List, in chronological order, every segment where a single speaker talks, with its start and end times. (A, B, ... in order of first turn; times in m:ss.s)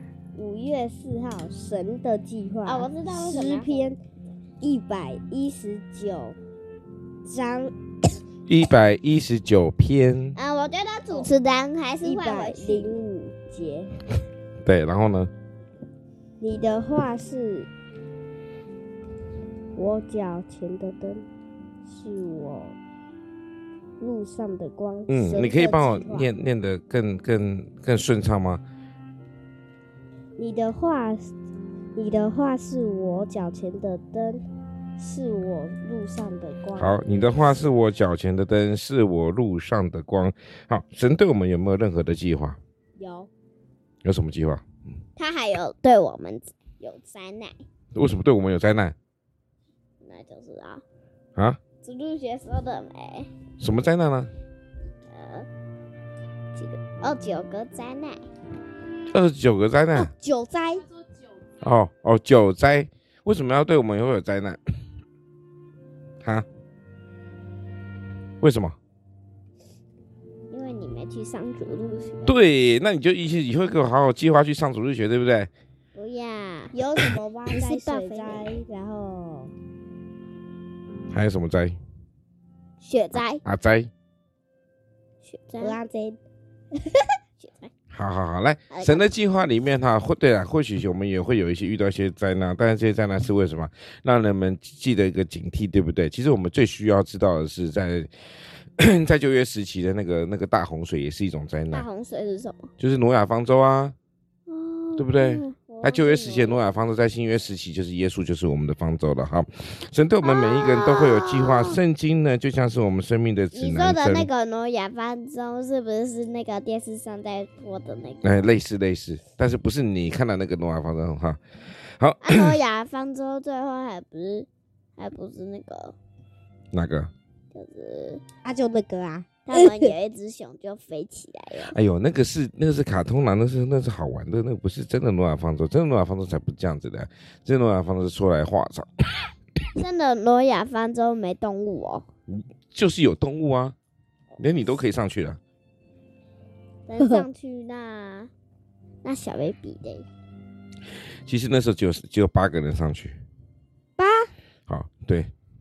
0:00.3-0:04.0 A
0:02.6-0:03.9 B
0:04.6-0:06.4 A
0:07.2-0:07.7 A
0:08.5-0:10.4 C
0:10.4-0:13.0 B
0:12.0-0:14.0 A
0:14.6-0:15.3 C
0:16.4-0:17.7 A
0:19.7-0:21.2 A
0:21.9-0:22.8 A
0:24.0-0:26.3 A
0:25.1-0:28.6 C
0:30.4-0:31.3 A
0:32.0-0:34.4 A
0:35.0-0:37.0 A
0:36.8-0:42.6 C
0:43.0-0:43.3 A
0:44.0-0:44.6 C
0:45.2-0:47.6 B
0:47.9-0:48.9 C
0:50.0-0:50.8 B
0:51.8-0:53.3 B
0:53.6-0:54.3 C
0:55.1-0:55.5 B
0:56.5-0:58.2 B
0:59.1-1:00.1 C
0:59.9-1:00.9 A
1:01.6-1:04.6 C
1:08.4-1:08.8 C
1:10.5-1:12.3 B
1:12.2-1:15.5 C
1:15.9-1:16.7 B
1:16.7-1:19.5 A
1:17.5-1:18.6 B
1:21.1-1:21.8 C
1:22.8-1:23.4 B
1:23.2-1:23.9 C
1:25.2-1:25.8 B
1:25.6-1:26.2 A
1:26.7-1:27.1 A
1:27.4-1:27.7 B
1:27.9-1:38.1 C
1:28.7-1:29.0 B
1:38.8-1:41.9 C
1:41.7-1:42.7 B
1:42.8-1:43.9 C
1:44.5-1:46.6 B
1:45.0-1:54.3 C
1:50.2-1:51.8 B
1:53.5-1:58.5 B
1:58.2-2:01.4 C
2:02.0-2:02.6 C
2:02.2-2:05.9 B
2:06.7-2:07.1 C
2:07.5-2:08.2 B
2:08.4-2:09.9 A
2:09.5-2:11.8 B
2:11.6-2:19.3 C
2:19.8-2:22.0 B
2:22.3-2:23.7 C
2:24.4-2:25.4 C
2:26.9-2:28.3 B
2:27.0-2:27.3 A
2:29.0-2:30.1 B
2:31.2-2:33.2 C
2:34.0-2:34.3 A
2:34.7-2:35.3 C